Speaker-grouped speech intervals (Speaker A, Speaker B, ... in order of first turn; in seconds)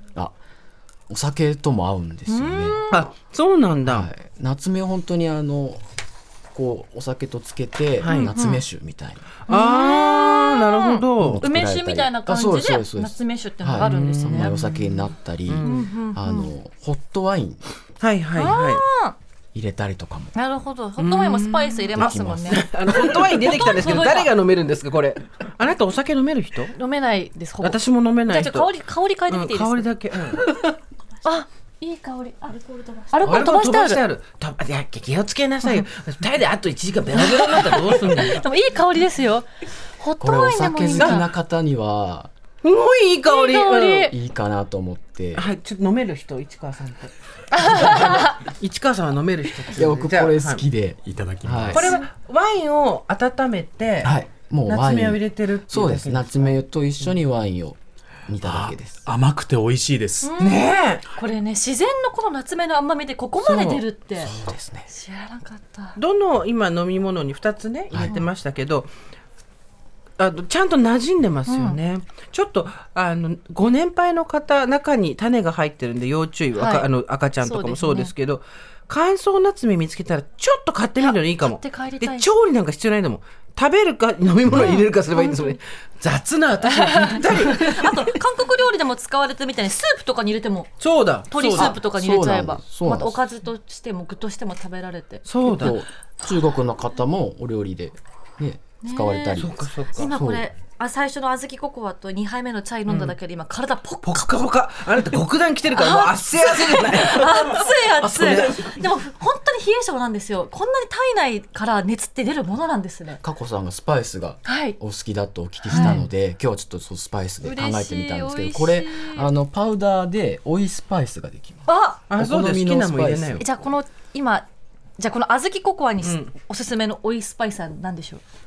Speaker A: 1.1-2.8, 3.9-5.8, 6.5-9.3, 11.2-17.7, 19.5-20.3, 21.9-23.4, 40.2-42.3, 44.1-45.5, 49.7-51.9, 54.0-59.1, 63.4-64.9, 91.6-93.2, 95.5-100.4, 108.1-108.5, 113.2-123.5
Speaker B: 2.3-3.1, 8.1-8.6, 9.5-14.6, 15.6-16.5, 18.4-19.2, 20.4-24.3, 26.7-29.9, 31.2-34.0, 37.1-39.5, 40.0-41.2, 43.3-44.1, 47.5-48.4, 60.2-66.0, 71.5-71.8, 76.6-76.9, 77.4-78.1, 81.0-82.3, 84.5-85.6, 86.7-90.7, 91.3-95.2, 98.8-104.4, 105.7-113.2, 114.5-114.8, 115.7-116.0, 117.4-119.3, 121.7-122.0, 123.4-124.5, 125.0-128.2
Speaker C: 2.9-4.1, 8.0-8.3, 9.5-11.4, 14.1-15.9, 18.0-18.8, 21.0-26.8, 27.6-28.7, 29.3-30.5, 33.2-38.4, 41.0-41.2, 42.6-44.1, 45.4-50.7, 51.7-54.1, 54.7-57.1, 60.4-61.1, 66.0-68.9, 70.2-88.2, 90.8-91.8, 95.3-95.8, 99.4-100.1, 102.9-103.1, 104.0-108.8, 115.7-116.0, 122.1-123.4, 126.0-126.3
Speaker D: 51.3-51.8, 58.4-60.3